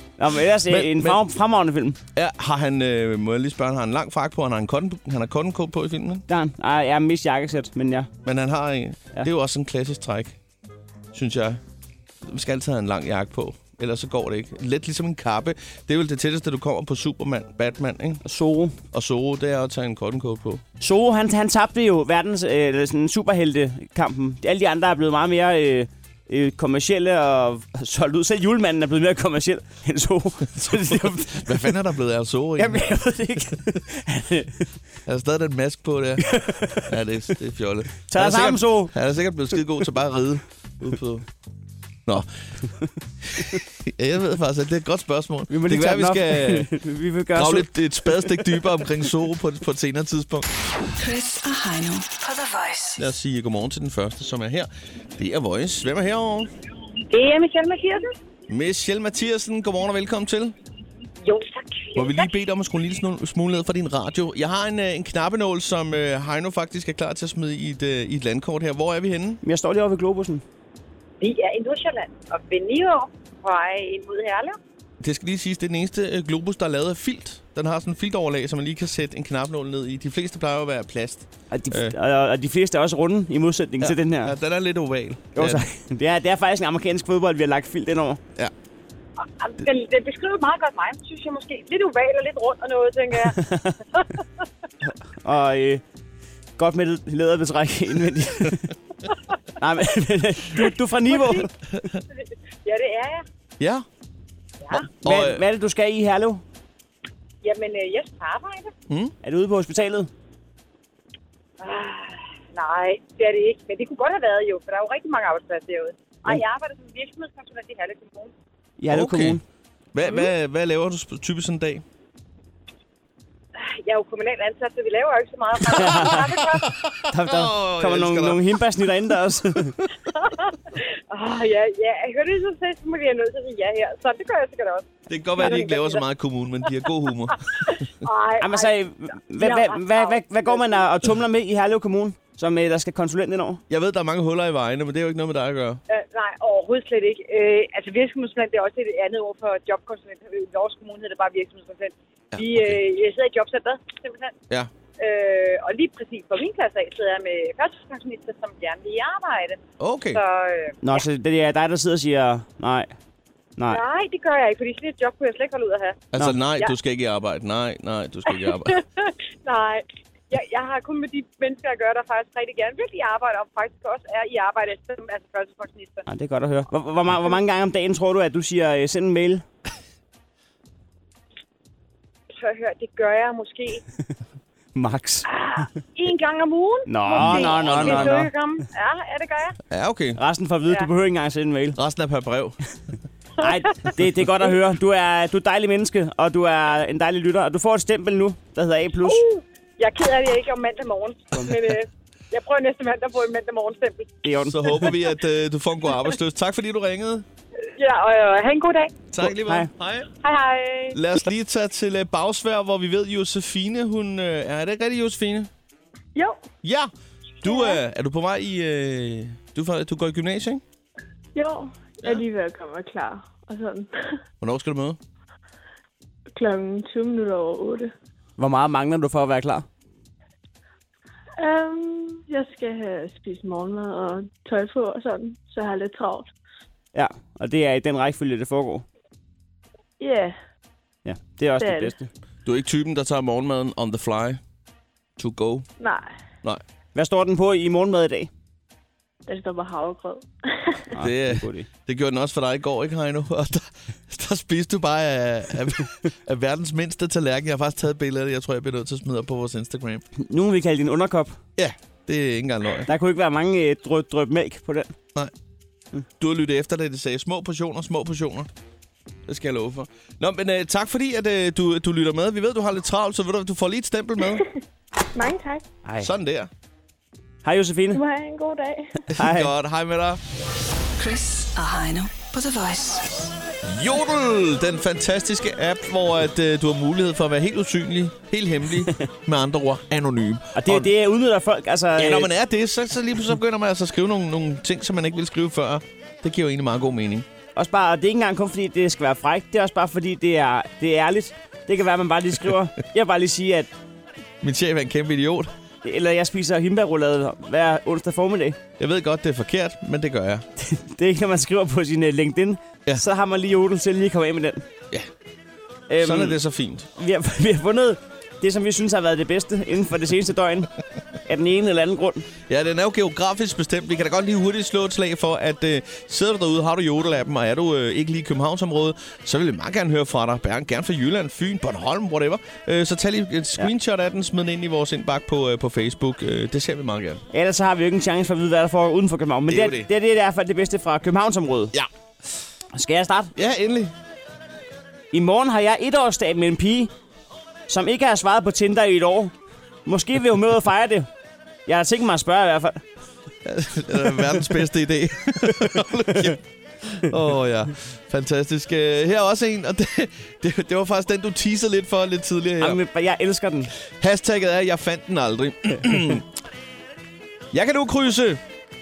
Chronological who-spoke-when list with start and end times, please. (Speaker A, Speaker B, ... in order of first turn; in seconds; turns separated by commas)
Speaker A: 0.2-2.0, Speaker B: 0.7-1.2, Speaker B: 2.1-6.2, Speaker A: 6.3-8.1, Speaker B: 8.2-10.4, Speaker B: 11.1-11.6, Speaker B: 12.2-18.2, Speaker A: 18.2-18.8, Speaker B: 18.9-20.6, Speaker A: 20.8-31.7, Speaker B: 30.5-33.0, Speaker A: 32.6-34.7, Speaker B: 35.1-41.3, Speaker A: 36.2-36.9, Speaker A: 38.1-38.9, Speaker B: 43.2-46.7, Speaker A: 45.5-47.7, Speaker B: 47.4-50.5, Speaker C: 51.0-53.0, Speaker B: 53.0-56.5, Speaker D: 57.1-58.1, Speaker B: 58.5-60.5, Speaker D: 61.2-62.3, Speaker B: 62.0-69.4, Speaker A: 69.4-70.4, Speaker D: 71.2-74.6, Speaker B: 75.0-81.9, Speaker A: 81.5-84.3, Speaker B: 83.8-85.6, Speaker A: 85.3-88.2, Speaker D: 89.4-94.2, Speaker A: 93.4-93.8, Speaker A: 95.2-95.8, Speaker A: 96.6-98.7, Speaker A: 99.6-101.5, Speaker D: 101.1-103.2, Speaker B: 103.6-103.9, Speaker B: 105.0-105.4, Speaker A: 105.0-106.4, Speaker D: 107.4-108.7, Speaker B: 108.9-109.1, Speaker A: 109.2-110.1, Speaker D: 111.6-118.3, Speaker A: 118.8-119.4, Speaker B: 118.9-119.4, Speaker B: 119.9-121.8, Speaker D: 123.6-126.8, Speaker A: 125.7-126.2, Speaker B: 126.7-128.4, Speaker A: 127.1-129.8, Speaker D: 130.1-136.0, Speaker B: 135.1-137.7, Speaker D: 137.6-138.7, Speaker A: 138.4-143.6, Speaker D: 139.4-140.8, Speaker B: 143.7-145.8, Speaker D: 145.9-154.3, Speaker B: 152.3-152.8, Speaker D: 155.0-159.6, Speaker B: 159.8-160.2, Speaker D: 160.1-160.8, Speaker A: 160.8-162.9, Speaker D: 163.7-166.0, Speaker B: 166.1-168.8, Speaker D: 168.3-176.1, Speaker A: 176.1-179.4, Speaker D: 182.3-183.8, Speaker A: 184.8-185.3, Speaker D: 185.3-189.6, Speaker A: 186.9-188.3, Speaker B: 187.2-188.3, Speaker B: 189.7-190.2, Speaker A: 190.2-191.8, Speaker B: 191.8-192.6, Speaker A: 193.4-199.2, Speaker D: 199.0-204.2, Speaker A: 204.2-204.8, Speaker B: 204.4-207.3, Speaker D: 207.8-209.0, Speaker B: 209.1-210.1, Speaker A: 209.2-209.7, Speaker D: 210.2-211.0, Speaker B: 210.9-215.5, Speaker E: 216.2-216.4, Speaker B: 216.6-216.9, Speaker B: 217.4-220.6, Speaker E: 217.4-217.8, Speaker E: 221.3-224.2, Speaker B: 224.4-225.0, Speaker E: 226.3-227.9, Speaker A: 228.4-229.7, Speaker E: 231.4-236.3, Speaker A: 236.9-238.9, Speaker E: 240.0-240.4, Speaker A: 241.1-242.1, Speaker E: 241.6-242.0, Speaker B: 242.5-244.4, Speaker B: 245.2-245.7, Speaker E: 245.8-246.1, Speaker A: 246.9-248.3, Speaker E: 249.3-250.9, Speaker A: 250.9-251.7, Speaker B: 251.0-260.1, Speaker A: 260.2-261.4, Speaker B: 261.6-262.9, Speaker A: 262.9-264.9, Speaker B: 266.2-268.5, Speaker B: 269.3-274.4, Speaker E: 275.1-275.7, Speaker B: 276.0-276.5, Speaker A: 277.4-278.0, Speaker E: 277.9-279.1, Speaker A: 279.1-279.5, Speaker B: 279.1-280.2, Speaker C: 281.0-283.2, Speaker B: 283.6-290.9, Speaker A: 290.6-292.3, Speaker B: 292.0-297.3, Speaker A: 297.6-303.7, Speaker B: 304.4-305.5, Speaker A: 305.8-308.6, Speaker B: 308.8-310.5, Speaker A: 310.6-314.7, Speaker A: 315.9-316.4, Speaker B: 316.0-316.9, Speaker A: 317.0-320.7, Speaker A: 321.3-322.3, Speaker B: 322.5-337.2, Speaker A: 337.3-341.7, Speaker B: 339.5-339.9, Speaker A: 342.7-343.3, Speaker B: 343.4-343.9, Speaker A: 345.1-346.9, Speaker A: 347.7-349.3, Speaker A: 349.9-351.1, Speaker A: 351.7-352.8, Speaker B: 353.4-362.8, Speaker A: 355.7-356.2, Speaker A: 362.6-363.7, Speaker B: 364.0-366.3, Speaker B: 367.5-368.4